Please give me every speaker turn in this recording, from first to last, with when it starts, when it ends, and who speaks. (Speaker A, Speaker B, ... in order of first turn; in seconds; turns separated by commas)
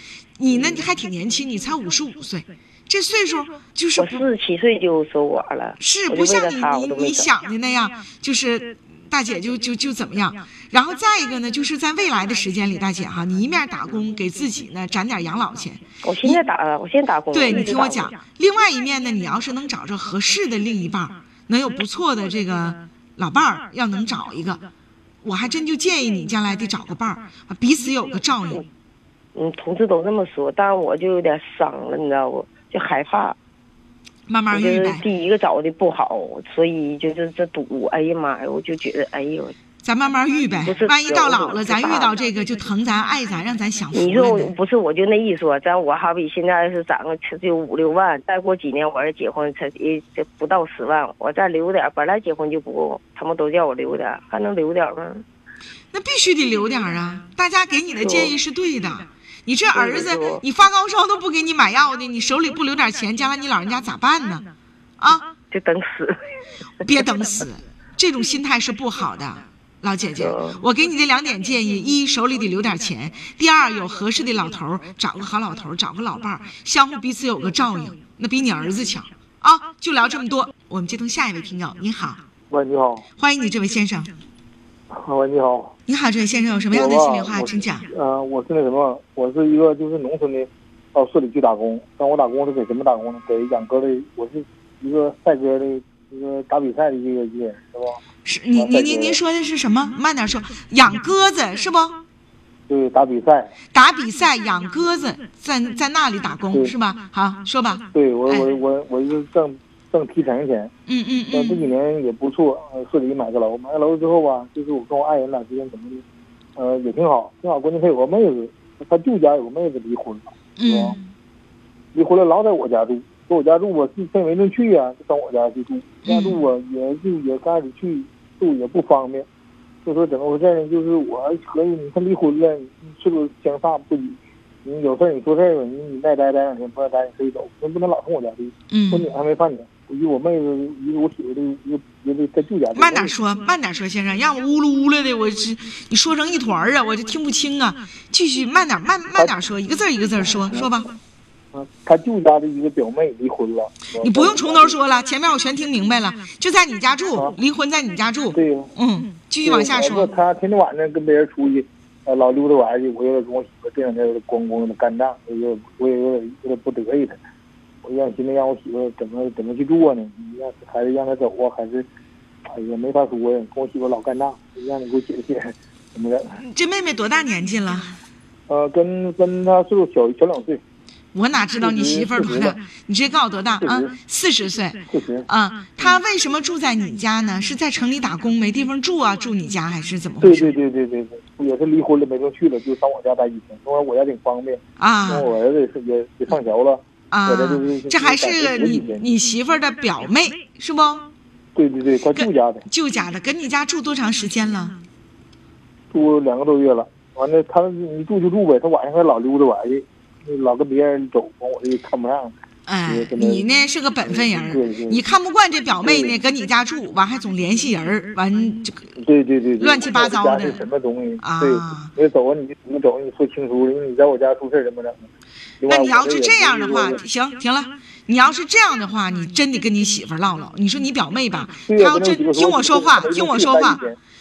Speaker A: 0.4-4.2, Speaker B: 4.0-7.3, Speaker A: 5.8-16.4, Speaker B: 16.0-18.1, Speaker A: 17.3-24.6, Speaker A: 25.2-28.6, Speaker B: 29.3-33.4, Speaker A: 34.3-35.0, Speaker B: 34.5-39.5, Speaker A: 39.8-44.5, Speaker B: 40.6-42.2, Speaker B: 43.9-55.2, Speaker A: 55.9-64.5, Speaker B: 58.0-58.3, Speaker B: 59.7-60.4, Speaker A: 65.0-65.3, Speaker B: 65.5-66.2, Speaker A: 66.8-82.2, Speaker B: 70.2-70.6, Speaker C: 82.5-83.1, Speaker A: 83.2-84.1, Speaker C: 84.9-85.7, Speaker A: 85.9-87.9, Speaker C: 86.7-98.0, Speaker A: 98.2-102.0, Speaker C: 98.5-99.2, Speaker C: 102.7-103.5, Speaker A: 103.7-108.5, Speaker C: 107.9-110.7, Speaker A: 110.9-111.7, Speaker C: 111.3-116.0, Speaker C: 116.5-121.0, Speaker A: 120.6-121.1, Speaker C: 121.9-129.3, Speaker A: 126.0-126.5, Speaker C: 129.8-143.1, Speaker A: 138.7-139.1, Speaker A: 142.7-150.9, Speaker C: 150.4-150.7, Speaker C: 151.5-154.8, Speaker A: 154.0-160.2, Speaker C: 158.3-158.7, Speaker C: 159.4-167.2, Speaker C: 167.8-171.8, Speaker C: 172.5-176.4, Speaker A: 176.4-178.0, Speaker C: 178.5-180.6, Speaker A: 181.1-190.5, Speaker C: 181.6-182.6, Speaker C: 183.6-183.9, Speaker C: 184.9-185.3, Speaker C: 190.2-199.1, Speaker A: 194.8-195.3, Speaker A: 197.1-201.1, Speaker C: 201.5-202.6, Speaker A: 202.1-204.8, Speaker C: 205.9-212.3, Speaker A: 212.7-218.9, Speaker C: 212.8-213.4, Speaker C: 214.1-215.0, Speaker C: 215.8-216.1, Speaker C: 219.0-225.1, Speaker A: 219.6-220.7, Speaker A: 221.2-221.9, Speaker C: 225.6-227.0, Speaker A: 225.6-233.8, Speaker C: 231.7-234.0